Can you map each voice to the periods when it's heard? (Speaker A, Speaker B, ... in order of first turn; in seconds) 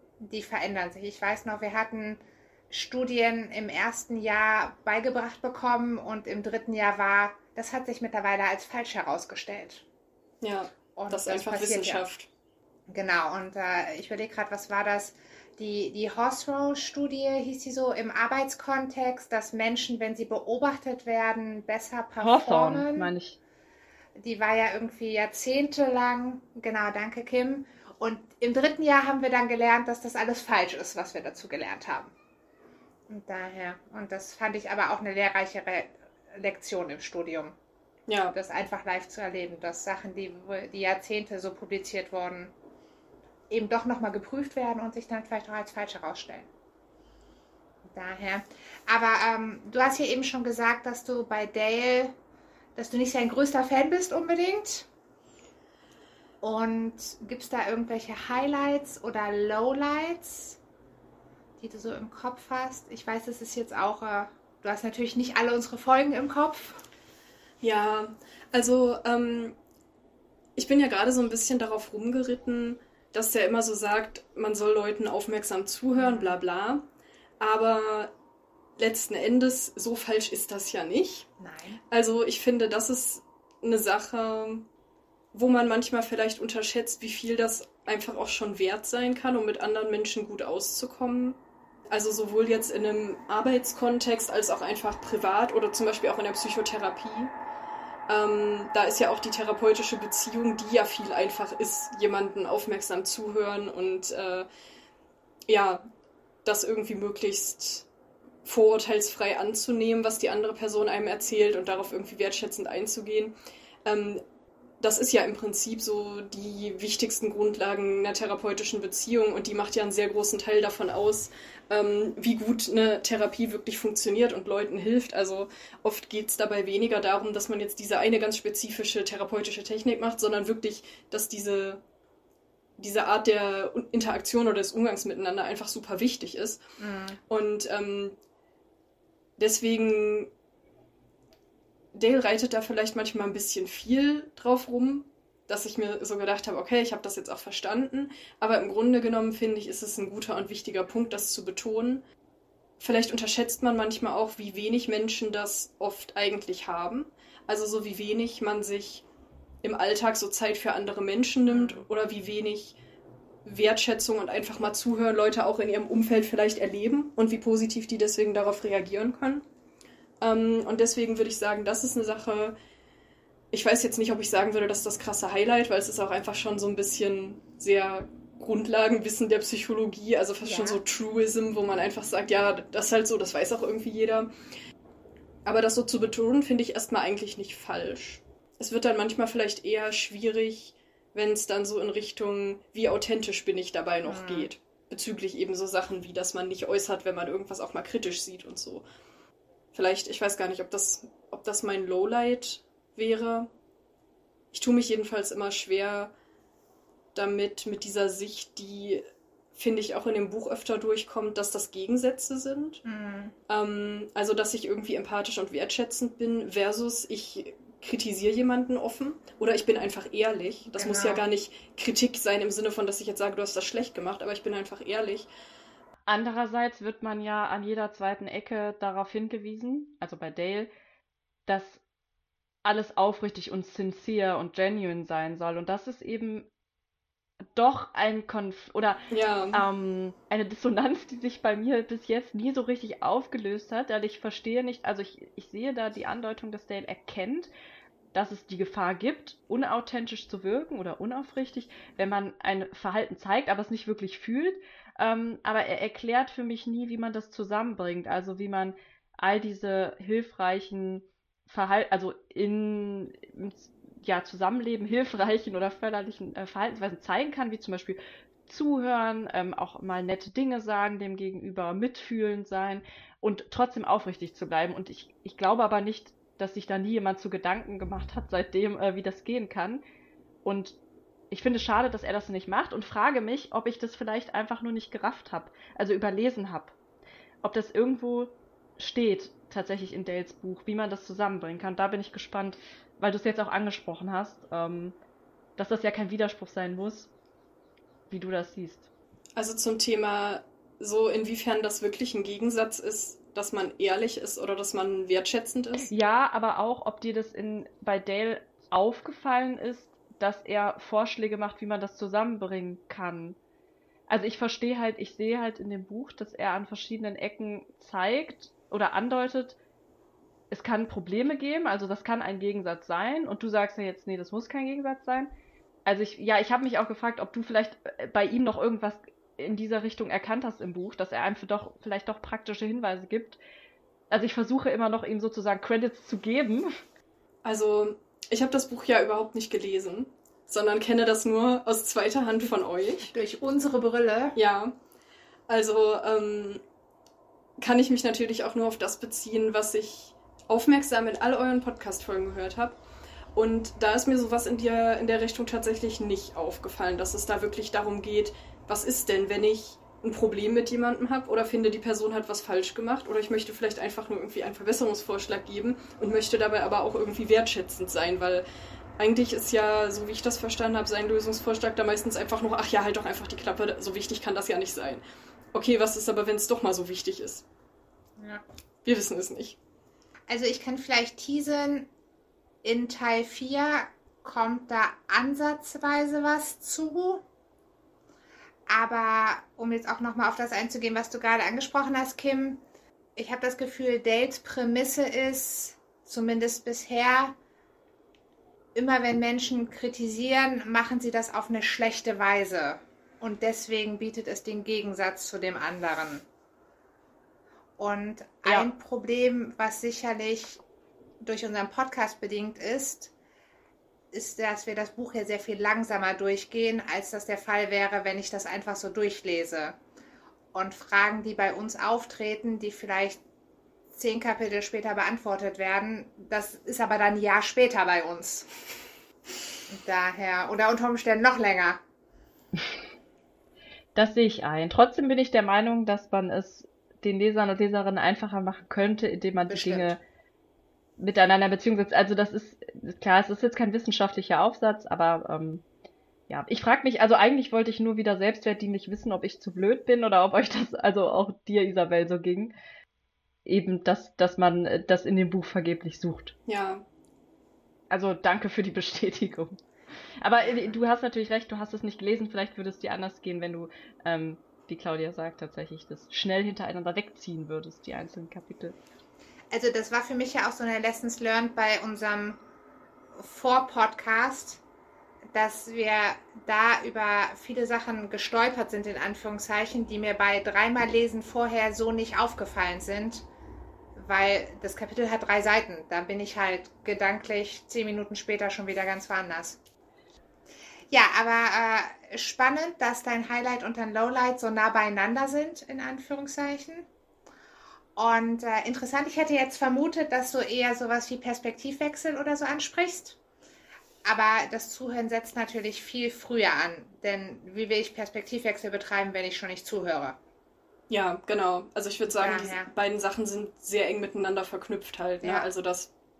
Speaker A: 0.2-9.8, 10.9-12.0, 12.9-23.1, 24.1-32.1, 33.1-37.6, 38.3-42.5, 43.5-46.5, 47.9-52.1, 52.8-54.9, 56.4-60.6, 61.6-66.8, 76.0-76.4, 81.4-81.8, 136.8-137.2, 161.5-161.8, 180.4-180.8, 194.0-194.5, 212.8-213.3, 220.7-221.2, 343.1-344.4, 378.2-378.4, 380.3-381.9, 382.6-387.2, 388.7-392.6, 393.1-397.4, 398.7-406.2, 407.8-410.6, 411.2-413.1, 414.1-419.8, 420.5-423.2, 423.9-428.5, 429.7-431.8, 439.5-439.9, 460.4-460.7, 469.5-472.4, 473.1-474.6, 475.3-483.3, 483.9-489.6, 490.9-496.9, 497.9-503.2, 504.0-510.2, 512.1-512.7, 515.2-515.5
Speaker B: 10.4-12.3, 38.1-38.4, 67.6-69.5, 70.5-76.8, 77.4-78.1, 78.8-81.3, 81.9-84.6, 85.3-91.4, 91.9-97.3, 98.1-104.5, 105.5-105.8, 106.4-107.8, 108.4-114.2, 114.8-131.8, 132.8-136.6, 137.3-138.2, 139.4-140.3, 141.9-152.0, 152.8-159.0, 159.6-162.8, 163.4-169.4, 170.2-172.6, 173.5-184.3, 185.4-198.8, 199.7-203.5, 204.5-206.1, 207.1-209.0, 209.5-212.8, 213.5-225.3, 239.1-239.6, 299.4-305.9, 337.4-343.1, 344.4-344.7, 345.5-346.6, 347.6-352.8, 353.4-368.4, 369.0-375.0, 375.5-377.4, 378.8-379.6, 456.5-456.8, 510.9-515.9
Speaker C: 22.2-23.4, 226.1-230.7, 231.5-231.8, 232.6-236.5, 237.5-247.5, 248.1-279.8, 280.4-280.8, 281.3-286.7, 287.4-294.9, 295.6-297.1, 298.1-298.9, 305.9-313.4, 314.1-319.6, 320.5-325.3, 325.9-333.4, 334.1-336.8, 433.9-440.0, 441.0-445.6, 446.3-452.5, 453.4-456.3, 457.9-459.6, 460.2-468.8